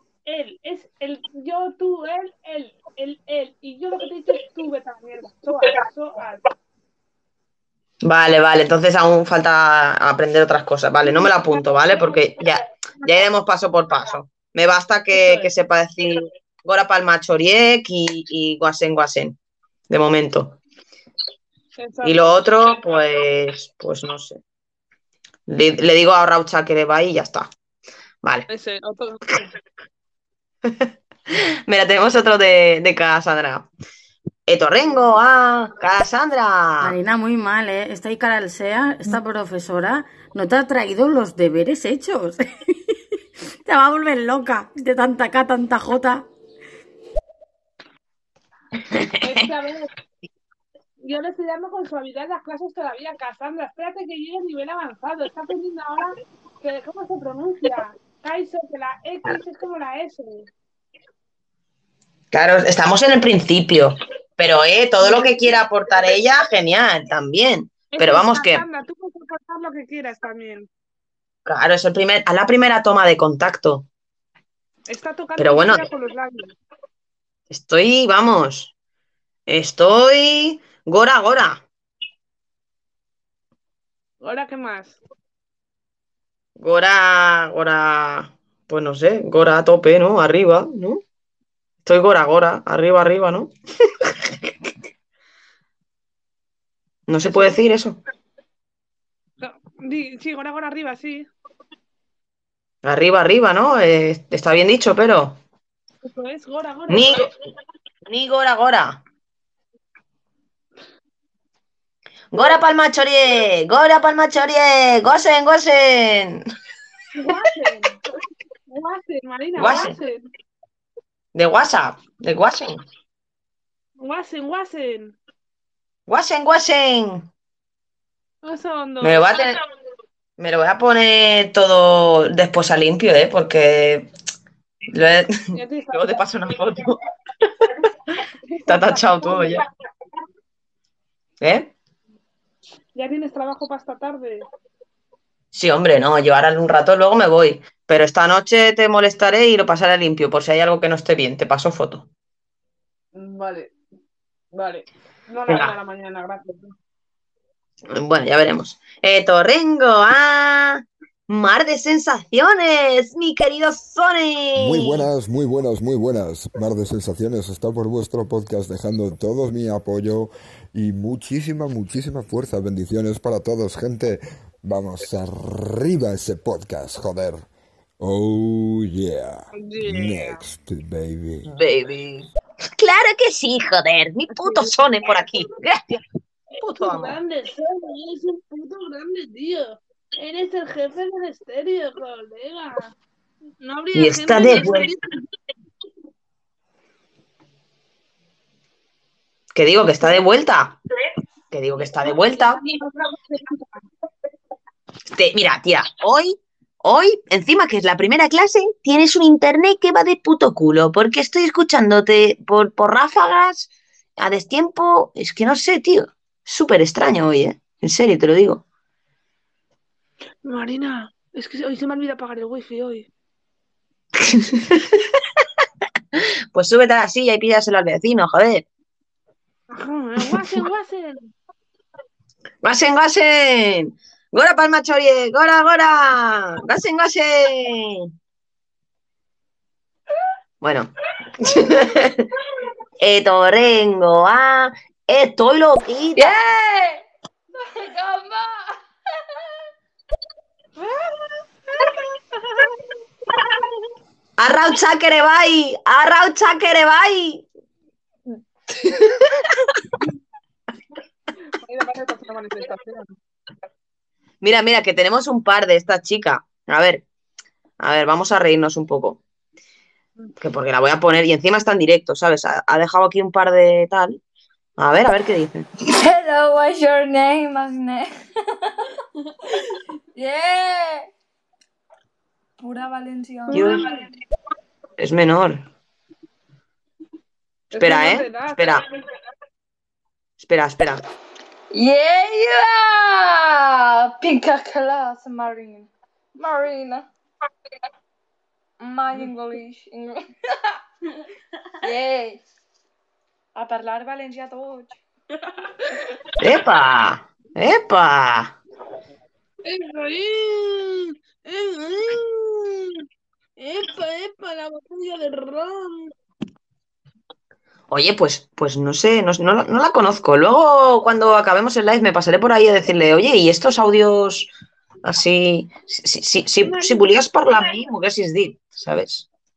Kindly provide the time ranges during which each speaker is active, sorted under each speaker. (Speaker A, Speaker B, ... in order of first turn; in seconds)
Speaker A: 0.3-6.5, 11.0-12.2, 15.1-15.5, 21.8-22.3, 28.5-29.5, 49.2-49.9, 51.0-60.5, 65.0-65.6, 67.9-70.7, 74.9-76.5, 84.2-85.0, 97.2-97.6, 99.4-101.3, 106.0-107.3, 117.2-118.0, 118.7-120.2, 124.0-125.2, 128.4-129.6, 135.5-136.2, 138.5-139.6, 142.9-144.5, 153.2-153.7, 154.5-156.7, 179.5-180.4, 184.4-184.7, 186.5-192.9, 193.6-195.1, 202.0-203.8, 220.4-223.1, 229.7-231.3, 261.5-263.1, 283.5-284.0, 287.7-288.8, 309.6-313.0, 313.6-316.1, 326.6-327.8
Speaker B: 8.0-19.4, 19.9-20.6, 22.0-24.4, 25.5-27.5, 30.6-33.7, 34.5-37.0, 48.9-49.4, 62.3-68.7, 71.5-73.9, 75.4-75.9, 77.5-78.7, 79.5-81.6, 86.6-91.0, 91.8-94.5, 97.1-98.0, 102.8-105.4, 106.9-107.3, 108.1-109.0, 112.3-116.4, 119.6-119.9, 121.3-122.8, 126.1-127.3, 129.0-129.6, 130.4-134.1, 134.9-137.0, 138.7-139.6, 141.4-141.7, 145.5-152.1, 155.5-155.7, 157.9-165.0, 181.5-186.0, 186.6-187.2, 193.9-194.9, 199.5-200.8, 201.5-202.6, 205.1-218.6, 224.2-225.1, 226.1-228.7, 232.6-238.1, 240.6-242.3, 243.0-246.4, 254.4-257.5, 258.9-259.5, 264.4-267.0, 267.8-269.2, 270.4-274.2, 274.8-275.7, 283.5-283.9, 285.0-285.7, 287.8-288.8, 290.4-291.0, 306.4-308.6, 317.9-324.5, 325.0-329.3
Speaker C: 36.8-42.9, 43.6-46.3
Speaker D: 164.6-177.5, 178.0-181.5
Speaker E: 246.2-247.1, 247.8-248.8, 275.8-278.1, 280.1-281.1, 282.6-283.9, 291.7-297.1, 298.8-300.2, 301.8-302.4, 303.6-305.0